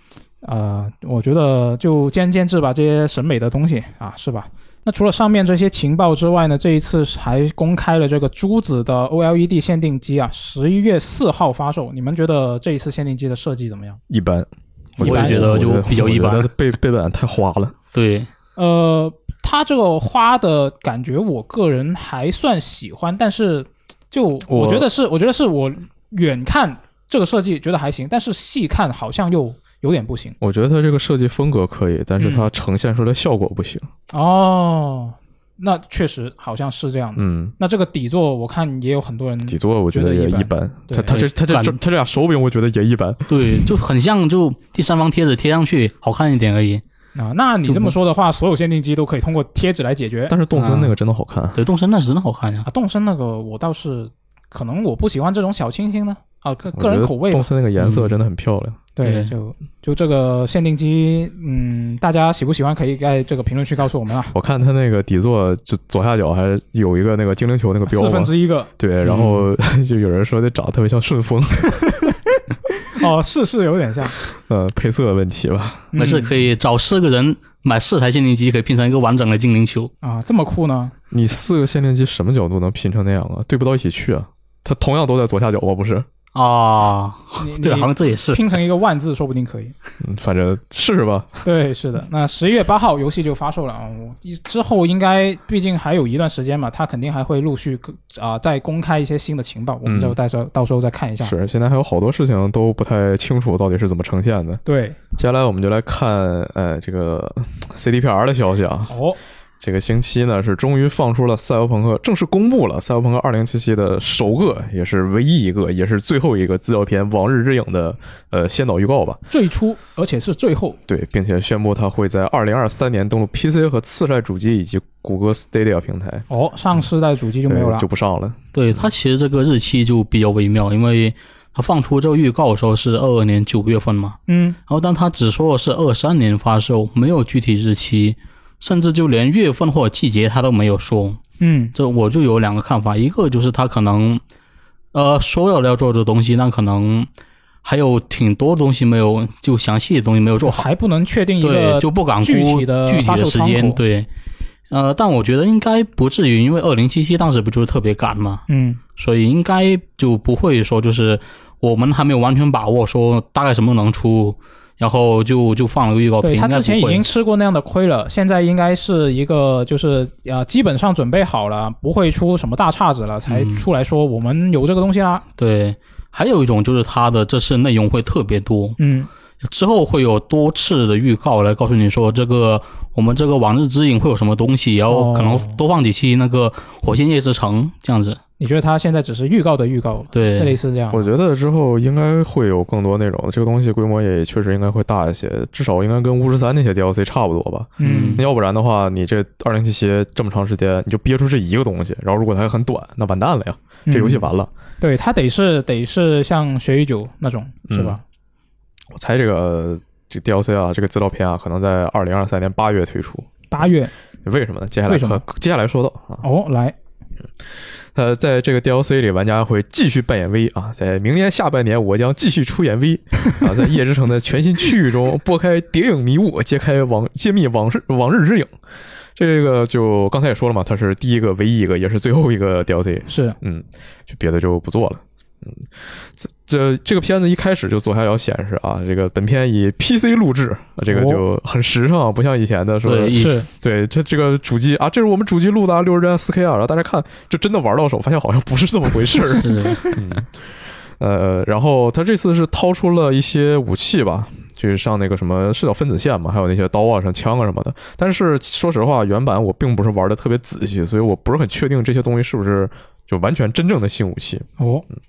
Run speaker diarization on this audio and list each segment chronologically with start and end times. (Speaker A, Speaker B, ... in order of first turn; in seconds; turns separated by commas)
Speaker A: 0.4-14.0, Speaker B: 14.1-17.8, Speaker C: 15.0-16.5, Speaker A: 15.0-15.6, Speaker C: 17.9-18.3, Speaker A: 18.6-30.4, Speaker B: 24.5-24.9, Speaker B: 30.4-33.9, Speaker A: 32.2-32.5, Speaker A: 34.1-41.1, Speaker B: 37.2-37.5, Speaker B: 39.5-43.7, Speaker C: 41.1-41.8, Speaker C: 43.3-46.8, Speaker A: 47.2-50.4, Speaker C: 47.7-47.9, Speaker B: 50.3-51.6, Speaker C: 50.5-51.0, Speaker C: 51.5-52.7, Speaker A: 52.6-57.5, Speaker B: 56.8-58.8, Speaker C: 57.8-58.1, Speaker A: 59.0-64.3, Speaker C: 59.0-59.3, Speaker B: 64.3-72.1, Speaker A: 67.9-68.7, Speaker C: 69.0-69.4, Speaker A: 72.8-74.2, Speaker B: 74.4-75.9, Speaker A: 75.9-76.3, Speaker C: 76.0-79.9, Speaker A: 80.0-80.9, Speaker B: 81.1-86.1, Speaker C: 86.3-88.6, Speaker A: 87.4-89.7, Speaker B: 90.0-91.4, Speaker A: 91.5-101.3, Speaker B: 99.8-100.2, Speaker B: 101.2-104.6, Speaker A: 104.7-105.0, Speaker B: 105.2-108.9, Speaker A: 108.9-109.2, Speaker B: 109.6-119.2, Speaker A: 119.3-120.8, Speaker B: 120.9-126.3, Speaker A: 126.3-127.9, Speaker B: 127.5-128.8, Speaker C: 128.5-141.2, Speaker A: 134.3-134.6, Speaker A: 141.4-141.7, Speaker C: 141.7-144.2, Speaker C: 144.9-147.1, Speaker C: 147.6-150.7, Speaker A: 150.4-153.8, Speaker C: 151.4-154.1, Speaker C: 154.7-158.4, Speaker A: 158.5-158.8, Speaker C: 159.0-167.1, Speaker A: 166.2-175.2, Speaker C: 173.3-173.7, Speaker C: 175.4-178.8, Speaker A: 178.8-179.1, Speaker C: 179.4-188.2, Speaker A: 184.9-185.6, Speaker A: 188.4-191.1, Speaker C: 190.1-190.6, Speaker B: 190.9-204.5, Speaker A: 197.8-198.2, Speaker C: 197.8-198.2, Speaker A: 203.9-204.3, Speaker A: 204.8-208.0, Speaker B: 207.7-208.0, Speaker B: 208.9-213.3, Speaker A: 213.5-213.9, Speaker B: 214.2-216.2, Speaker A: 214.9-215.2, Speaker A: 216.2-216.8, Speaker B: 217.9-228.5, Speaker B: 229.2-250.3, Speaker A: 233.1-233.4, Speaker A: 240.9-241.2, Speaker C: 242.8-243.4, Speaker A: 243.2-243.5, Speaker C: 249.4-249.9, Speaker B: 251.0-264.5, Speaker A: 264.6-264.9